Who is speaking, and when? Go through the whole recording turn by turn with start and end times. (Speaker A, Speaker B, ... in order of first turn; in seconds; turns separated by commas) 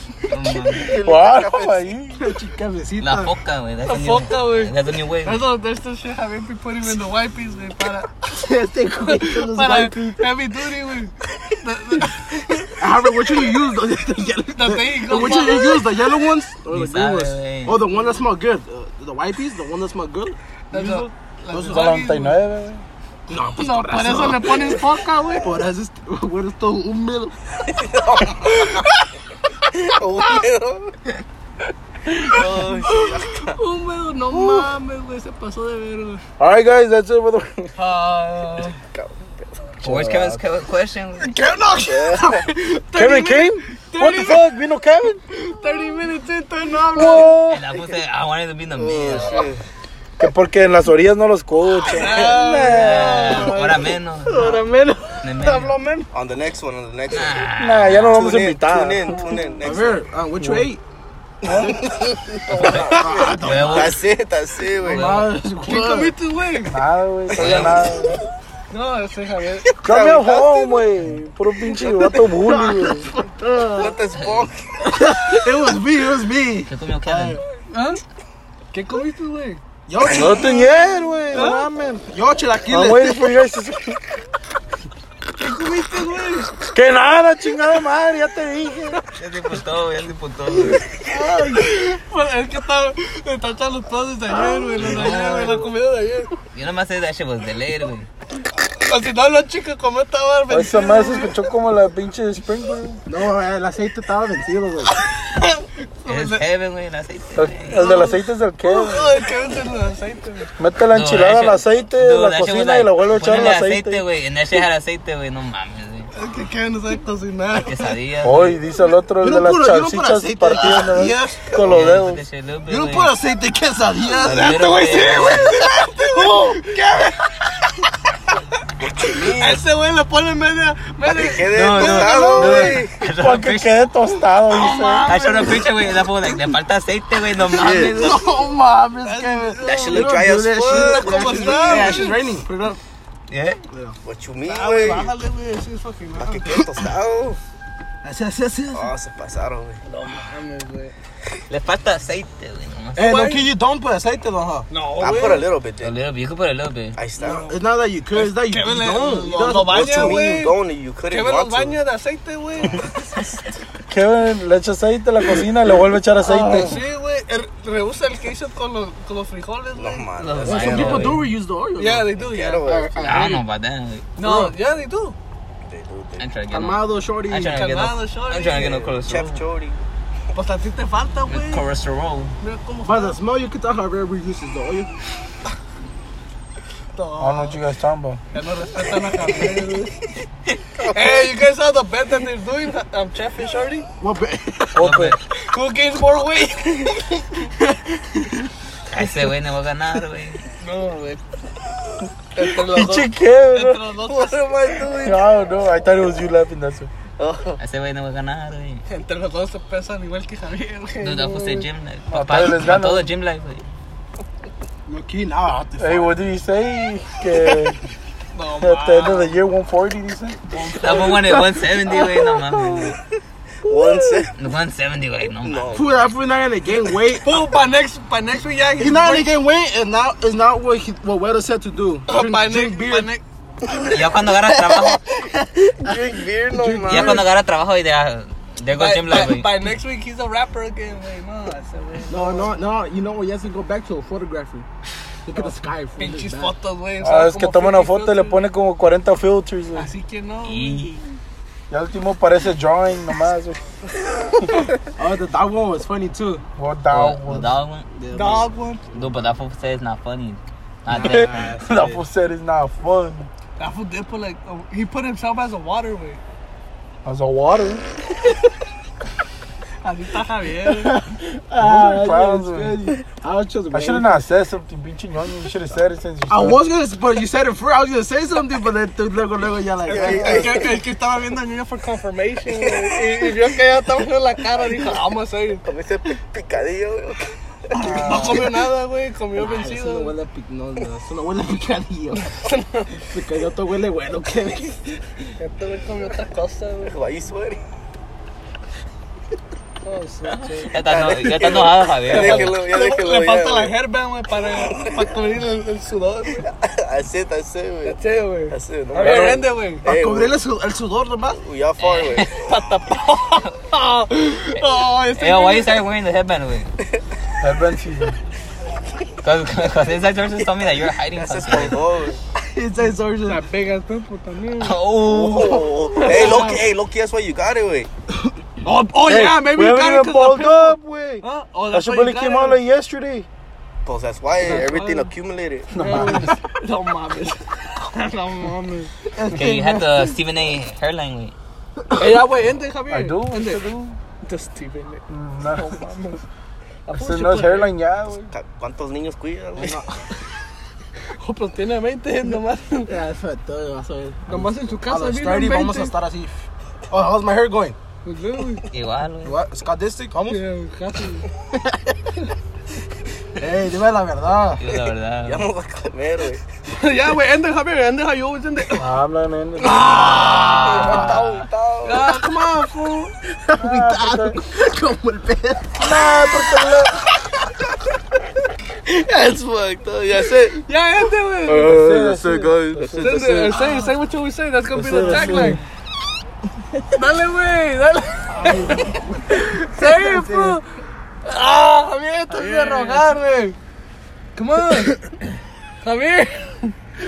Speaker A: 0.3-1.0, Speaker B: 0.5-0.7, Speaker C: 0.8-2.0, Speaker D: 1.1-2.2, Speaker E: 2.2-3.3, Speaker A: 3.0-5.5, Speaker B: 3.9-8.2, Speaker E: 8.3-10.3, Speaker B: 9.0-12.8, Speaker E: 12.8-21.9, Speaker B: 14.5-15.9, Speaker A: 16.7-17.9, Speaker B: 20.7-22.4, Speaker D: 21.7-22.8, Speaker E: 23.3-27.4, Speaker B: 23.5-25.6, Speaker C: 27.7-28.7, Speaker E: 28.2-28.6, Speaker B: 28.4-29.1, Speaker C: 29.7-30.9, Speaker B: 32.1-36.2, Speaker C: 32.3-33.6, Speaker E: 34.3-34.7, Speaker D: 36.4-37.7, Speaker B: 37.8-38.8, Speaker C: 38.8-39.7, Speaker A: 39.8-41.4, Speaker E: 39.8-40.4, Speaker B: 41.2-44.5, Speaker C: 41.8-42.5, Speaker D: 43.0-45.2, Speaker B: 45.3-47.5, Speaker D: 46.9-47.7, Speaker A: 47.4-49.5, Speaker C: 48.7-49.6, Speaker B: 49.1-49.5, Speaker D: 50.2-53.5, Speaker B: 51.9-53.6, Speaker E: 52.1-56.1, Speaker A: 52.6-54.7, Speaker B: 54.3-54.5, Speaker A: 55.2-55.8, Speaker C: 56.1-57.5, Speaker A: 57.1-58.5, Speaker D: 57.6-59.1, Speaker C: 58.1-60.1, Speaker E: 59.6-60.8, Speaker D: 60.4-60.7, Speaker C: 61.4-61.8, Speaker E: 61.4-64.0, Speaker C: 62.5-65.3, Speaker A: 62.5-64.0, Speaker E: 64.8-66.2, Speaker B: 65.6-66.8, Speaker D: 66.7-68.2, Speaker A: 67.3-67.8, Speaker C: 67.4-68.2, Speaker B: 68.7-69.7, Speaker D: 69.8-73.1, Speaker E: 69.9-70.7, Speaker C: 71.8-72.3, Speaker E: 72.4-74.0, Speaker C: 73.7-75.0, Speaker A: 74.2-74.5, Speaker E: 74.9-77.4, Speaker A: 76.7-77.4, Speaker B: 77.7-78.0, Speaker B: 78.7-79.6, Speaker E: 79.9-80.8, Speaker C: 80.0-80.5, Speaker D: 80.0-82.0, Speaker B: 81.3-81.7, Speaker E: 82.1-83.3, Speaker D: 82.7-84.0, Speaker B: 85.4-86.5, Speaker D: 86.7-89.0, Speaker A: 89.1-90.8, Speaker B: 91.0-96.3, Speaker E: 94.3-95.3, Speaker A: 94.8-95.7, Speaker A: 96.5-98.1, Speaker B: 98.6-101.4, Speaker D: 100.5-103.0, Speaker E: 103.1-105.0, Speaker B: 105.2-106.4, Speaker A: 106.1-108.0, Speaker D: 107.4-109.1, Speaker B: 107.7-110.5, Speaker D: 110.6-114.0, Speaker A: 110.9-116.1, Speaker B: 116.1-117.9, Speaker A: 117.5-118.6, Speaker D: 118.2-122.2, Speaker E: 119.2-121.5, Speaker A: 121.6-123.2, Speaker E: 122.7-124.6, Speaker B: 124.2-127.2, Speaker A: 124.2-125.5, Speaker E: 125.6-126.8, Speaker C: 128.8-129.6, Speaker B: 129.3-132.8, Speaker C: 131.1-133.0, Speaker A: 131.5-133.8, Speaker E: 131.9-132.8, Speaker D: 133.2-135.2, Speaker B: 134.5-135.8, Speaker A: 135.1-138.2, Speaker C: 137.6-138.2, Speaker E: 137.6-142.8, Speaker B: 139.0-142.2, Speaker C: 139.6-142.2, Speaker A: 143.3-143.6, Speaker E: 143.7-144.0, Speaker C: 144.0-145.1, Speaker B: 144.5-146.6, Speaker C: 146.2-147.4, Speaker E: 148.0-148.9, Speaker C: 148.7-149.8, Speaker B: 149.8-150.9, Speaker A: 151.5-153.2, Speaker B: 153.0-153.5, Speaker E: 153.0-154.7, Speaker B: 154.7-155.5, Speaker C: 155.0-156.0, Speaker A: 155.8-157.0, Speaker C: 157.0-157.5, Speaker B: 157.2-157.6, Speaker E: 157.2-160.2, Speaker B: 158.1-162.9, Speaker C: 159.6-161.8, Speaker D: 163.9-166.8, Speaker E: 166.2-166.8, Speaker B: 166.4-171.1, Speaker C: 169.8-171.2, Speaker A: 170.2-171.3, Speaker E: 170.4-172.1, Speaker B: 171.8-172.7, Speaker C: 172.2-173.3, Speaker E: 172.6-173.4, Speaker A: 173.1-174.1, Speaker B: 174.2-175.2, Speaker C: 175.7-176.2, Speaker A: 176.2-179.4, Speaker E: 176.5-177.6, Speaker B: 177.5-178.9, Speaker C: 178.9-179.8, Speaker B: 180.3-181.7, Speaker A: 181.3-182.3, Speaker B: 182.4-183.2, Speaker E: 182.8-184.9, Speaker B: 186.9-187.6, Speaker D: 187.2-188.2, Speaker B: 188.3-189.9, Speaker C: 190.8-191.2, Speaker B: 190.9-193.9, Speaker E: 194.0-194.8, Speaker D: 194.8-195.2, Speaker A: 194.8-195.2, Speaker B: 195.4-197.2, Speaker A: 198.9-200.4, Speaker B: 200.6-201.2, Speaker B: 202.3-205.1, Speaker D: 202.7-203.8, Speaker C: 204.1-205.2, Speaker D: 205.0-206.9, Speaker C: 207.2-207.6, Speaker A: 207.6-208.8, Speaker B: 208.9-211.7, Speaker A: 211.0-213.7, Speaker D: 212.1-213.1, Speaker E: 214.9-216.2, Speaker D: 215.8-217.8, Speaker B: 218.3-219.4, Speaker D: 218.6-220.4, Speaker B: 220.5-222.1, Speaker A: 220.8-223.0, Speaker E: 221.9-222.8, Speaker C: 223.7-224.3, Speaker E: 223.7-224.2, Speaker A: 224.4-225.7, Speaker C: 225.4-226.1, Speaker E: 225.7-227.3, Speaker B: 227.2-229.3, Speaker E: 228.8-233.1, Speaker B: 232.1-233.2, Speaker E: 233.7-237.3, Speaker A: 233.9-235.0, Speaker C: 235.7-237.2, Speaker A: 236.9-239.6, Speaker B: 238.7-242.6, Speaker E: 242.1-244.7, Speaker E: 245.2-246.5, Speaker B: 246.0-248.4, Speaker D: 247.0-249.9, Speaker B: 249.8-250.9, Speaker A: 250.4-251.0, Speaker D: 251.7-253.6, Speaker E: 255.0-256.4, Speaker D: 256.6-257.6, Speaker A: 256.9-257.9, Speaker E: 257.9-258.5, Speaker B: 258.1-258.8, Speaker A: 258.9-261.7, Speaker E: 260.9-262.0, Speaker D: 261.1-263.3, Speaker B: 263.6-266.2, Speaker D: 267.1-267.8, Speaker B: 269.8-271.0, Speaker E: 270.6-274.2, Speaker D: 271.6-273.0, Speaker D: 273.7-276.6, Speaker E: 276.3-280.7, Speaker C: 279.9-280.8, Speaker B: 279.9-285.6, Speaker C: 282.5-283.0, Speaker C: 285.6-288.4, Speaker B: 287.7-290.1, Speaker E: 287.8-288.6, Speaker E: 289.4-292.4, Speaker B: 292.4-292.9, Speaker E: 293.0-295.0, Speaker B: 295.4-297.0, Speaker C: 296.8-297.6, Speaker B: 299.8-306.5, Speaker A: 300.6-302.6, Speaker C: 300.9-303.8, Speaker C: 304.5-305.1, Speaker C: 306.4-310.4, Speaker B: 307.9-309.9, Speaker D: 308.9-309.4, Speaker E: 309.9-311.4, Speaker C: 311.3-312.5, Speaker A: 311.8-312.4, Speaker B: 312.3-315.8, Speaker A: 314.6-316.7, Speaker D: 317.4-318.2, Speaker A: 319.2-321.8, Speaker C: 321.1-322.2, Speaker E: 322.3-323.4, Speaker B: 323.2-324.8, Speaker A: 324.6-325.7, Speaker C: 324.9-327.9, Speaker E: 325.1-326.2, Speaker B: 325.9-326.6, Speaker B: 328.6-332.6, Speaker D: 329.0-333.3, Speaker C: 333.9-335.7, Speaker B: 334.4-335.1, Speaker D: 335.7-336.3, Speaker B: 335.8-338.9, Speaker E: 339.2-340.1, Speaker A: 339.3-341.4, Speaker B: 341.9-346.2, Speaker D: 342.9-343.7, Speaker D: 345.1-345.8, Speaker B: 346.9-347.7, Speaker D: 346.9-348.3, Speaker C: 348.3-349.8, Speaker E: 349.6-349.9, Speaker B: 351.2-352.9, Speaker E: 352.9-357.8, Speaker B: 354.3-356.0, Speaker B: 358.0-358.6, Speaker A: 358.7-359.4, Speaker E: 359.2-360.4, Speaker B: 360.3-361.3, Speaker E: 363.4-364.7, Speaker A: 364.6-365.5, Speaker C: 365.2-366.4, Speaker B: 366.7-368.9, Speaker D: 368.8-371.2, Speaker B: 369.6-371.2, Speaker C: 370.6-372.2, Speaker A: 370.9-371.3, Speaker B: 371.8-373.1, Speaker E: 373.3-375.9, Speaker D: 373.6-374.4, Speaker D: 375.8-377.0, Speaker C: 378.9-380.6, Speaker B: 380.5-381.8, Speaker C: 381.4-383.6, Speaker D: 381.6-383.6, Speaker B: 383.0-385.6, Speaker D: 384.7-385.6, Speaker E: 385.1-385.6, Speaker B: 386.9-390.6, Speaker E: 388.3-390.6, Speaker B: 391.2-393.6, Speaker E: 392.4-393.1, Speaker B: 394.4-395.0, Speaker B: 395.8-396.7